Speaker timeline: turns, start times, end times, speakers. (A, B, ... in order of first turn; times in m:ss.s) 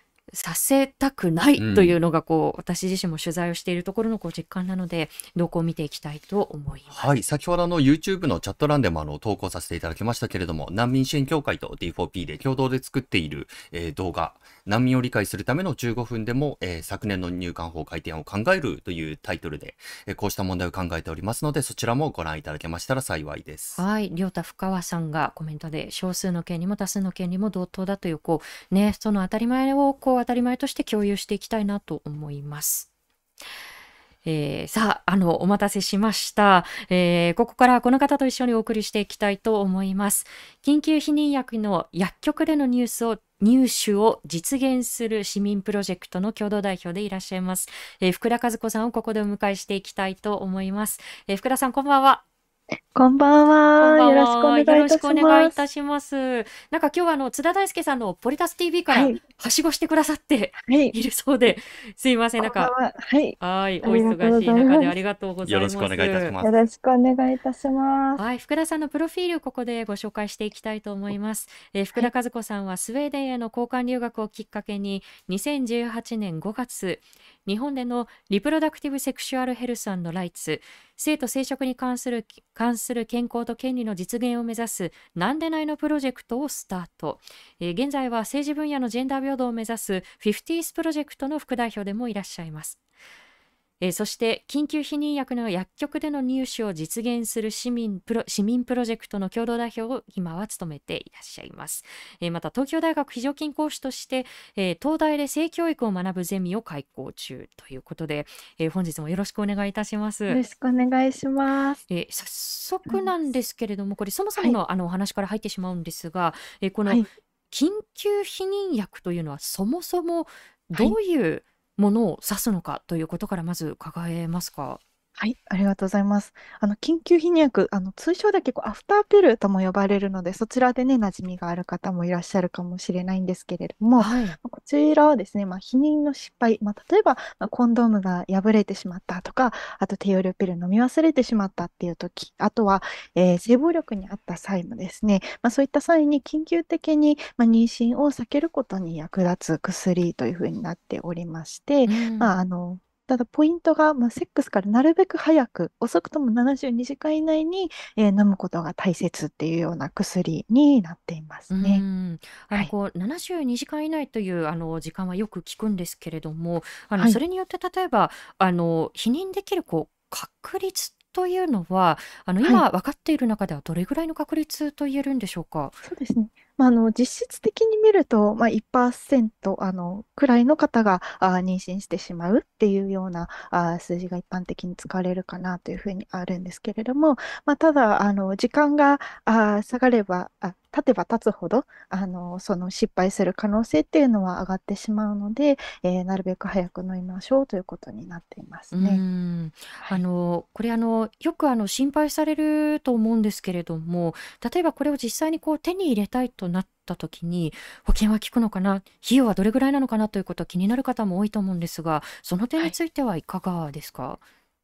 0:00.3-0:07.2 A
0:01.6-0:02.0 B
0:06.9-0:23.8 B
0:23.8-0:32.9 A
0:34.2-0:52.2 A
0:52.9-0:55.6 C
0:53.8-1:02.7 A
0:58.9-0:59.2 C
1:00.6-1:01.0 C
1:02.4-1:05.0 C
1:03.4-1:06.4 A
1:05.5-1:06.6 B
1:06.4-1:08.2 C
1:08.2-1:32.8 A
1:33.8-1:50.4 A
1:50.3-1:51.8 C
1:51.9-2:04.8 A
2:05.2-2:41.8 C
2:14.0-2:14.4 A
2:31.8-2:32.3 A
2:41.5-2:55.8 A
2:55.8-3:19.0 C
3:18.7-3:34.2 A